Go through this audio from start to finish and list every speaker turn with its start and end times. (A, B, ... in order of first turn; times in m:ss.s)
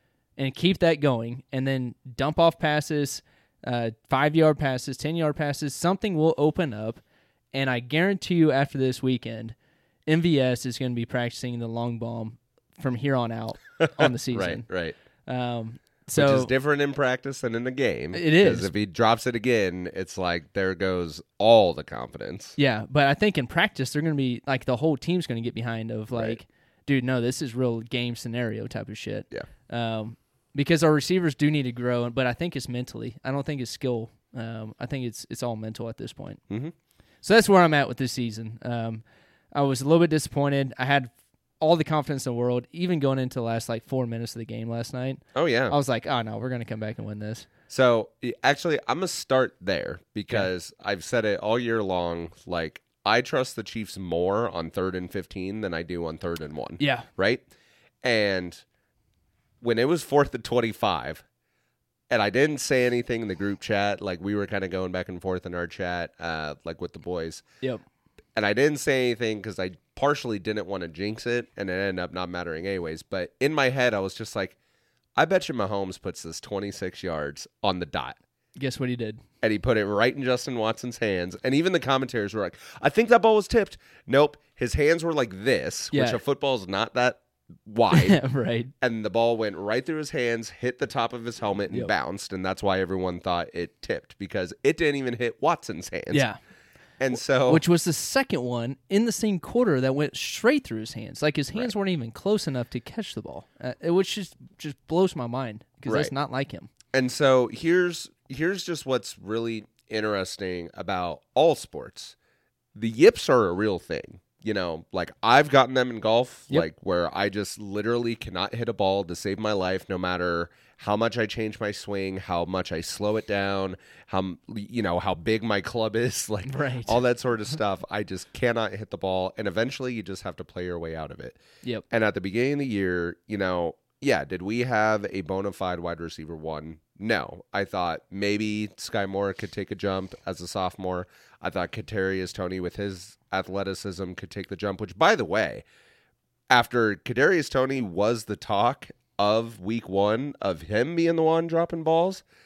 0:00.4-0:07.0 A
0:07.5-0:09.6 A
0:10.1-0:14.6 A
0:13.8-0:15.0 B
0:15.3-0:16.5 A
0:16.2-0:22.6 B
0:18.1-0:18.7 A
0:22.6-0:36.4 A
0:37.2-0:47.5 A
0:45.4-0:45.8 B
0:47.7-0:57.4 B
0:56.8-0:57.1 A
0:58.0-0:58.6 B
0:59.6-1:01.2 B
1:02.1-1:07.4 B
1:08.4-1:14.6 B
1:15.2-1:18.2 B
1:18.6-1:19.2 A
1:19.4-1:28.2 B
1:25.9-1:26.2 A
1:27.9-1:28.7 A
1:28.8-1:36.2 B
1:36.1-1:36.4 A
1:37.0-1:37.6 B
1:37.5-1:46.7 A
1:45.9-1:46.1 B
1:46.9-1:52.2 B
1:52.8-2:11.4 B
2:06.4-2:07.0 A
2:11.9-2:25.6 B
2:26.5-2:32.2 B